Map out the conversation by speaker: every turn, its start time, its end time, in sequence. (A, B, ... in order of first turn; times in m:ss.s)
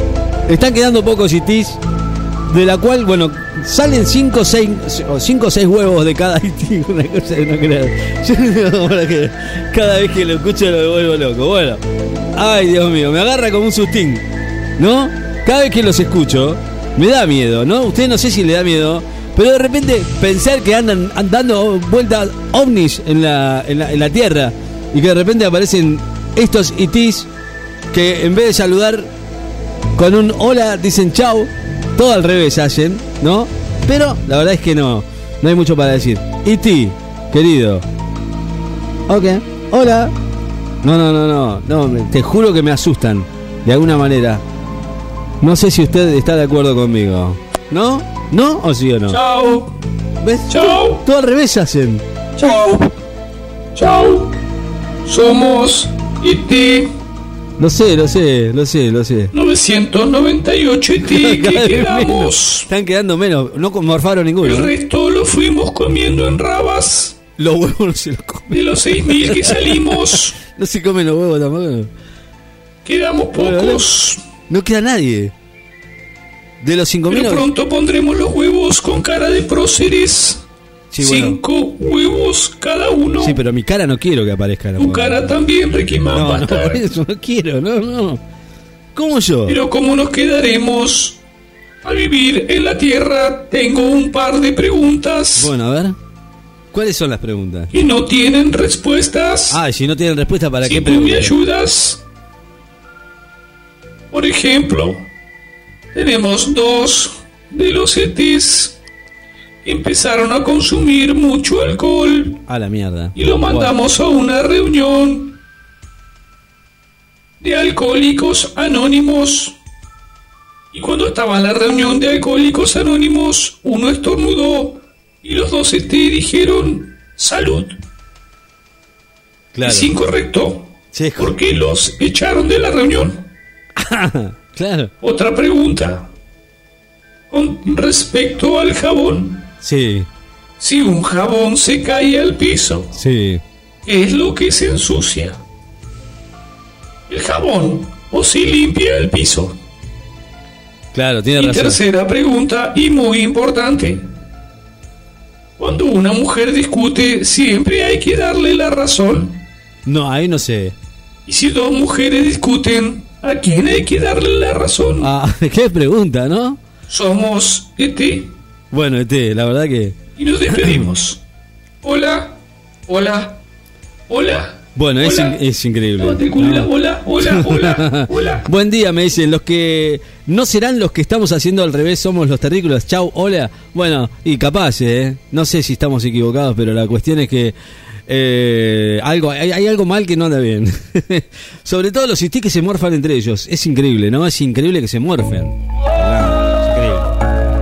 0:00.5-0:01.8 A
0:02.5-0:11.8 A
0:12.3-0:14.3 A
0:14.8-0:27.3 A
0:27.9-0:29.1 A
0:30.0-0:37.9 A
0:39.1-0:40.2 A
0:40.8-0:44.4 A
0:45.4-0:49.2 A
0:49.1-0:49.7 B
0:50.2-0:52.0 A
0:50.5-0:51.0 B
0:52.4-0:52.9 B
0:53.8-0:54.4 B
0:55.0-0:57.0 B
0:57.6-0:59.3 A
0:59.3-1:02.7 B
1:01.0-1:04.7 A
1:04.4-1:07.2 B
1:07.4-1:11.9 A
1:08.5-1:10.4 B
1:12.8-1:14.2 B
1:13.4-1:13.8 A
1:14.5-1:15.3 A
1:16.6-1:17.5 A
1:17.1-1:20.4 B
1:20.9-1:21.4 A
1:21.0-1:23.4 B
1:23.2-1:25.2 A
1:24.8-1:26.8 B
1:26.1-1:28.2 A
1:29.0-1:29.6 A
1:29.5-1:31.2 B
1:31.8-1:35.5 B
1:35.4-1:36.0 A
1:36.7-1:37.7 A
1:37.7-1:39.6 B
1:39.5-1:41.4 A
1:40.6-1:42.0 B
1:44.1-1:45.1 B
1:45.9-1:48.8 B
1:49.6-1:52.4 B
1:52.5-1:53.8 A
1:53.2-1:55.4 B
1:57.4-1:59.6 B
2:00.7-2:07.8 B
2:09.5-2:09.9 A
2:09.6-2:13.3 B
2:10.9-2:11.3 A
2:13.8-2:14.9 A
2:15.0-2:16.1 B
2:17.3-2:19.5 B
2:19.6-2:20.1 A
2:20.6-2:22.9 B
2:22.9-2:23.4 A
2:23.8-2:25.4 B
2:27.1-2:29.6 B
2:30.9-2:31.8 A
2:31.4-2:34.1 B
2:35.6-2:39.4 B
2:39.9-2:40.8 A
2:41.3-2:45.1 B
2:45.0-2:46.6 A
2:46.9-2:48.4 B
2:48.7-2:50.0 A
2:50.2-2:51.2 B
2:50.6-2:50.9 A
2:51.8-2:53.4 B
2:54.1-2:55.4 B
2:54.8-2:56.7 A
2:56.0-2:58.5 B
2:57.2-3:07.6 A
3:08.1-3:17.1 A